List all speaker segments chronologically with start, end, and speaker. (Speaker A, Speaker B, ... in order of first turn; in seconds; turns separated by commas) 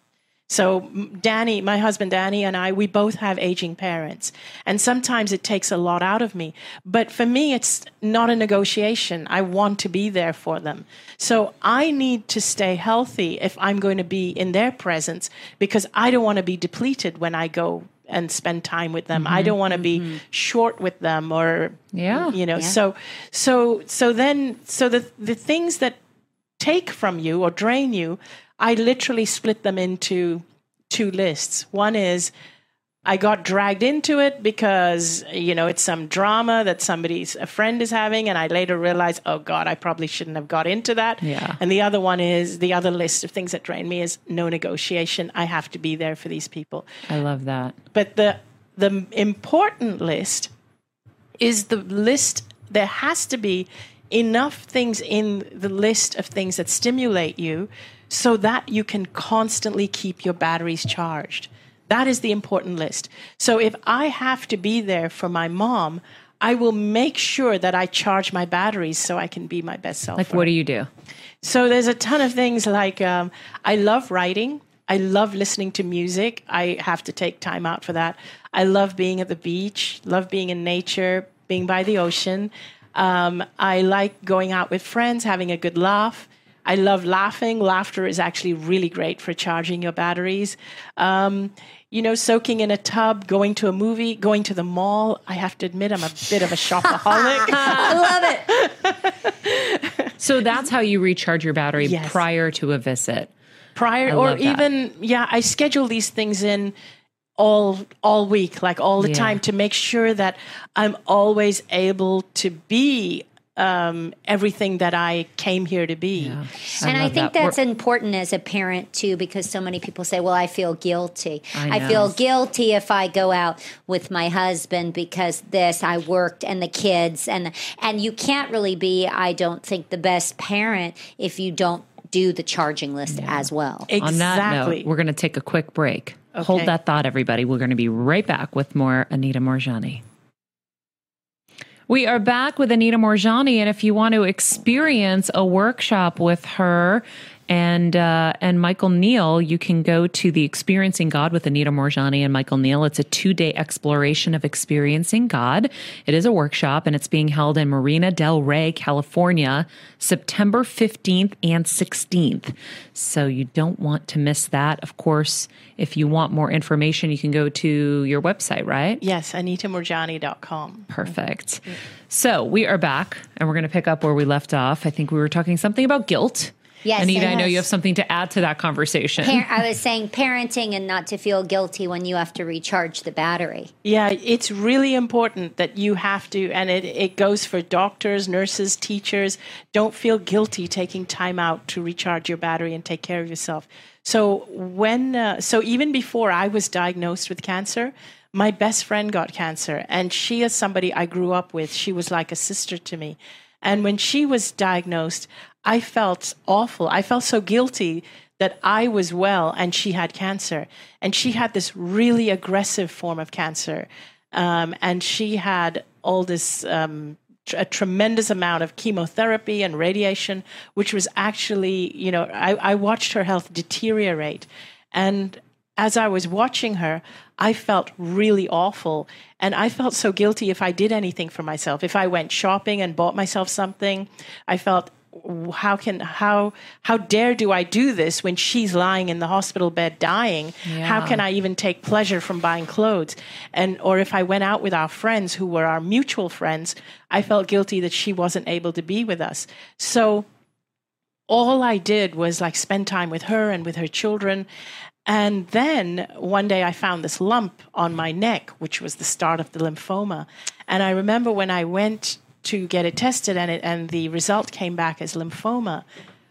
Speaker A: 0.5-26.0, Speaker B: 19.1-19.6, Speaker C: 19.7-20.1, Speaker B: 21.9-22.3, Speaker A: 26.6-32.3, Speaker A: 33.0-46.9, Speaker B: 41.2-41.6, Speaker B: 47.1-47.8, Speaker A: 47.9-50.5, Speaker A: 51.4-70.5, Speaker B: 70.2-70.9, Speaker A: 71.4-100.1, Speaker C: 97.0-98.4, Speaker B: 97.6-98.0, Speaker B: 100.2-103.3, Speaker A: 101.8-102.2, Speaker A: 103.8-106.7, Speaker B: 104.1-104.6, Speaker A: 107.4-116.4, Speaker B: 109.0-109.4, Speaker B: 116.2-117.5, Speaker C: 116.8-133.9, Speaker B: 121.5-122.2, Speaker B: 133.1-133.5, Speaker A: 133.9-134.9, Speaker B: 134.0-140.0, Speaker A: 136.3-136.7, Speaker B: 141.9-169.0, Speaker A: 169.0-170.9, Speaker B: 170.9-179.4, Speaker C: 176.8-177.6, Speaker C: 179.2-183.7, Speaker A: 183.8-250.2, Speaker B: 240.7-241.2, Speaker A: 251.3-254.4, Speaker A: 255.1-265.8